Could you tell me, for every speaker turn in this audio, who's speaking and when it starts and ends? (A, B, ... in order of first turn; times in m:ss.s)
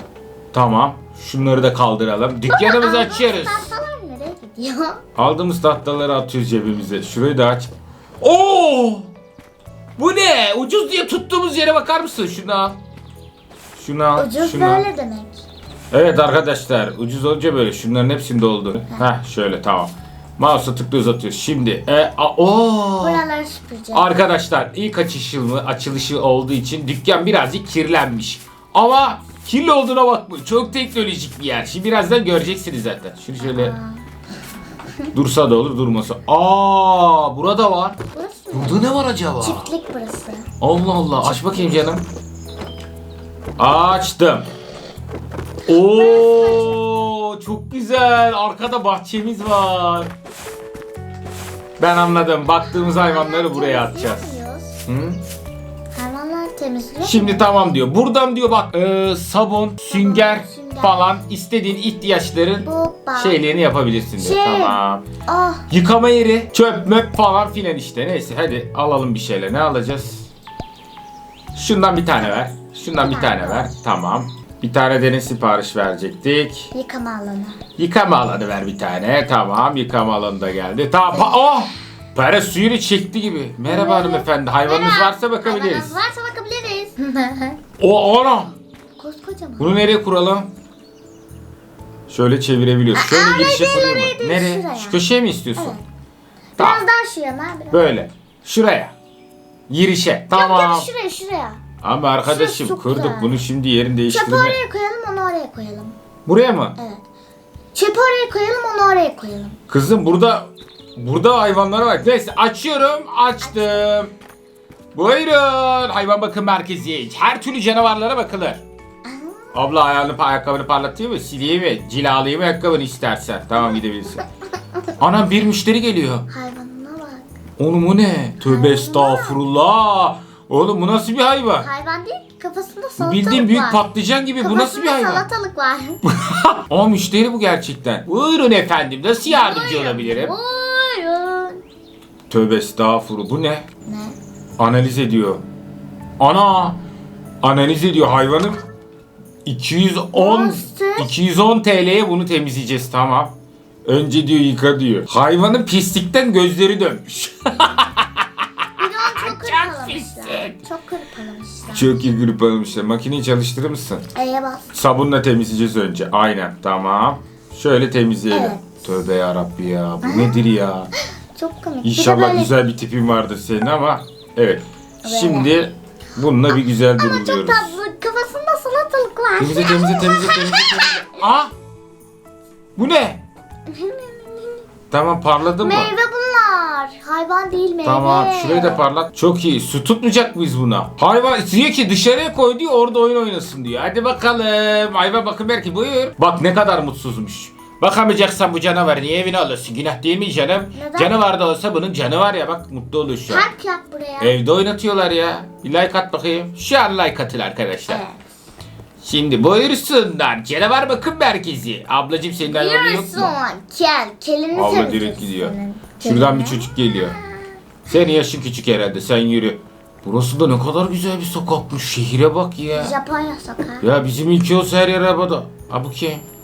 0:00.5-0:03.7 A
0:02.5-0:05.0 B
0:05.2-0:07.7 A
0:08.2-0:09.1 A
0:10.0-0:12.8 A
0:13.8-0:14.8 A
0:14.2-0:15.4 B
0:15.9-0:23.2 A
0:23.0-0:24.2 B
0:23.9-0:33.7 A
0:33.4-0:34.0 B
0:35.1-0:38.0 A
0:38.1-0:38.9 B
0:38.5-0:39.7 A
0:39.4-0:40.5 B
0:40.6-0:42.0 A
0:41.2-0:41.9 B
0:43.6-0:44.5 A
0:45.7-0:50.1 A
0:45.7-0:46.7 B
0:51.8-0:55.2 A
0:52.8-0:54.8 B
0:55.9-0:57.5 B
0:57.0-1:05.0 A
0:59.9-1:01.1 B
1:02.6-1:03.4 B
1:04.2-1:05.7 B
1:05.7-1:10.3 A
1:11.5-1:16.7 A
1:13.0-1:13.7 B
1:16.7-1:17.6 B
1:17.8-1:26.0 A
1:21.1-1:21.6 B
1:23.6-1:27.6 B
1:27.8-1:28.5 A
1:29.0-1:29.8 B
1:29.6-1:30.5 A
1:32.1-1:35.8 A
1:33.0-1:35.0 B
1:35.6-1:35.8 B
1:36.6-1:37.9 B
1:37.7-1:38.9 A
1:39.7-1:40.9 A
1:40.3-1:41.6 B
1:41.8-1:44.6 A
1:42.2-1:43.4 B
1:44.1-1:46.0 B
1:46.3-1:46.8 A
1:46.8-1:47.0 B
1:47.7-1:49.6 B
1:49.7-1:54.1 A
1:53.4-1:53.9 B
1:54.9-1:58.6 A
1:59.0-1:59.6 B
1:59.5-2:04.2 A
2:05.0-2:06.3 A
2:06.3-2:07.3 B
2:07.6-2:11.7 A
2:08.4-2:09.4 B
2:11.6-2:13.8 B
2:13.0-2:15.3 A
2:14.4-2:16.0 B
2:16.1-2:20.3 A
2:19.3-2:21.6 B
2:22.3-2:23.7 A
2:23.9-2:24.2 B
2:24.6-2:25.4 A
2:26.2-2:26.8 A
2:27.4-2:28.6 A
2:29.4-2:33.3 A
2:30.2-2:31.1 B
2:33.8-2:38.2 A
2:38.8-2:40.6 A
2:38.8-2:42.0 B
2:41.7-2:44.0 A
2:44.1-2:44.7 B
2:44.7-2:50.9 A
2:48.3-2:48.6 B
2:50.0-2:50.4 B
2:51.3-2:52.5 B
2:51.8-2:57.8 A
2:55.0-2:55.5 B
2:56.5-3:01.2 B
2:59.4-3:01.5 A
3:02.8-3:03.2 A
3:03.7-3:04.7 B
3:04.9-3:05.9 A
3:05.6-3:08.8 B
3:07.8-3:23.5 A
3:20.7-3:21.2 B
3:23.3-3:24.4 B
3:24.2-3:28.0 A
3:27.9-3:28.2 B
3:29.0-3:33.4 A
3:32.4-3:37.6 B
3:34.5-3:37.2 A
3:37.9-3:43.0 A
3:42.8-3:43.9 B
3:43.8-3:46.2 A